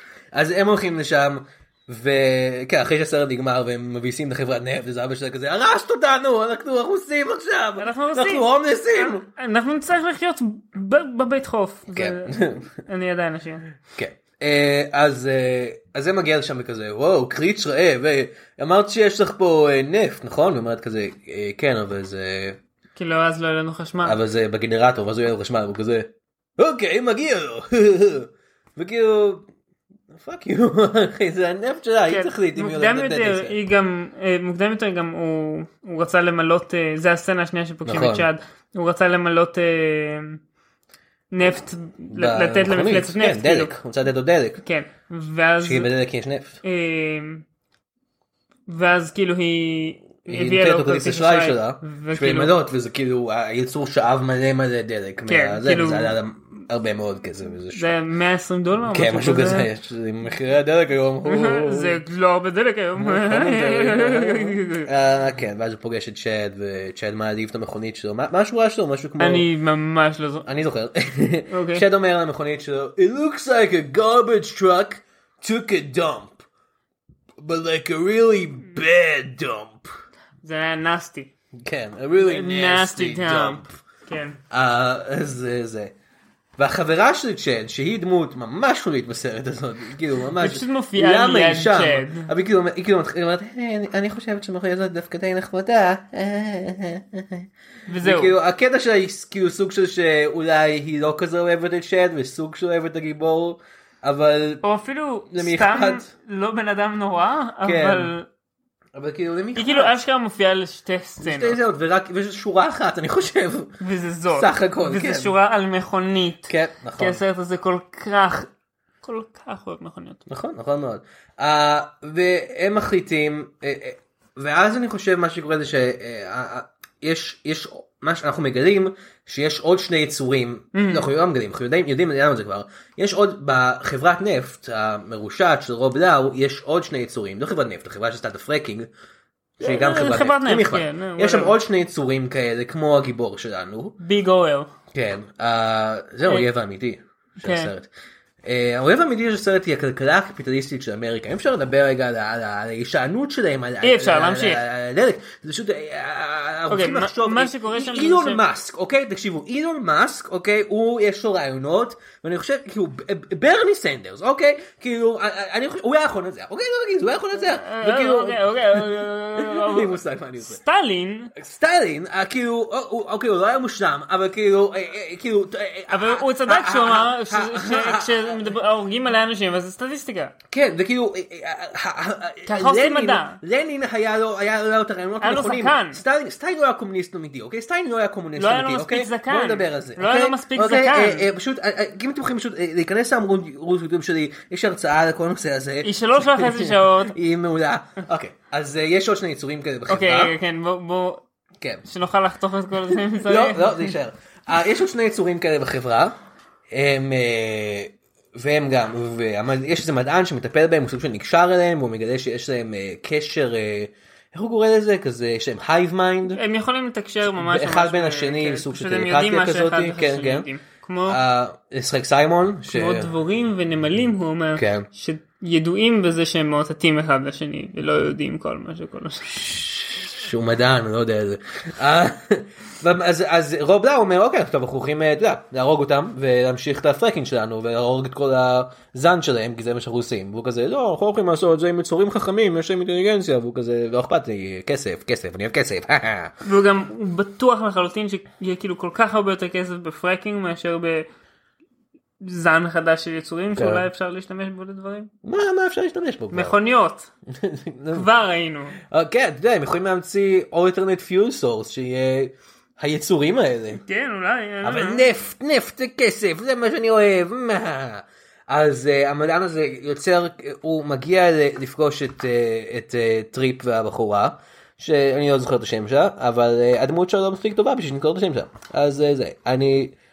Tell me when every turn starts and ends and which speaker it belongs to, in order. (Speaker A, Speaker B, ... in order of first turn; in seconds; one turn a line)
Speaker A: 0.3-9.3
Speaker B: 7.8-13.7
Speaker A: 11.9-12.7
Speaker A: 13.9-22.6
Speaker B: 22.9-24.2
Speaker A: 24.0-29.5
Speaker A: 30.1-33.6
Speaker B: 32.1-40.4
Speaker A: 37.9-38.3
Speaker B: 41.3-43.7
Speaker A: 42.1-44.6
Speaker B: 44.6-45.9
Speaker A: 45.6-46.6
Speaker B: 46.6-47.5
Speaker B: 48.7-52.5
Speaker A: 50.3-57.9
Speaker B: 55.3-56.2
Speaker B: 57.7-59.7
Speaker A: 58.9-62.0
Speaker B: 61.2-64.9
Speaker A: 63.0-69.5
Speaker B: 69.2-70.5
Speaker A: 70.5-76.5
Speaker B: 71.5-71.9
Speaker A: 77.4-79.9
Speaker B: 80.4-81.3
Speaker A: 81.6-83.7
Speaker B: 82.2-84.4
Speaker A: 84.5-85.9
Speaker A: 86.6-97.5
Speaker B: 90.4-92.3
Speaker B: 97.9-98.3
Speaker A: 98.0-104.6
Speaker B: 104.6-108.3
Speaker A: 105.3-106.1
Speaker A: 107.6-108.1
Speaker A: 109.0-110.0
Speaker B: 109.5-111.6
Speaker A: 111.2-113.8
Speaker B: 113.8-118.5
Speaker A: 114.3-115.3
Speaker A: 116.5-117.2
Speaker B: 119.0-120.2
Speaker A: 120.3-138.9
Speaker B: 130.7-131.1
Speaker A: 139.6-144.0
Speaker B: 139.6-141.6
Speaker B: 144.0-144.7
Speaker A: 144.9-147.9
Speaker B: 147.4-147.7
Speaker A: 148.4-170.6
Speaker B: 153.8-154.6
Speaker B: 156.7-158.4
Speaker B: 167.3-171.3
Speaker A: 171.3-178.6
Speaker B: 175.9-180.3
Speaker A: 180.5-200.3
Speaker B: 182.5-183.4
Speaker B: 185.2-186.0
Speaker B: 188.4-191.3
Speaker B: 195.8-197.2
Speaker B: 199.9-201.2
Speaker A: 201.6-201.8
Speaker B: 201.8-203.9
Speaker A: 202.9-206.1
Speaker A: 206.7-216.4
Speaker B: 216.3-221.2
Speaker A: 217.3-220.5
Speaker A: 221.1-223.1
Speaker B: 222.7-229.4
Speaker A: 224.6-224.9
Speaker A: 229.3-246.3
Speaker B: 246.4-251.1
Speaker B: 252.2-255.1
Speaker A: 253.6-253.9
Speaker A: 255.2-256.6
Speaker B: 256.3-257.1
Speaker A: 257.4-258.1
Speaker B: 257.9-258.8
Speaker A: 258.8-263.8
Speaker B: 263.7-265.1
Speaker A: 264.6-279.9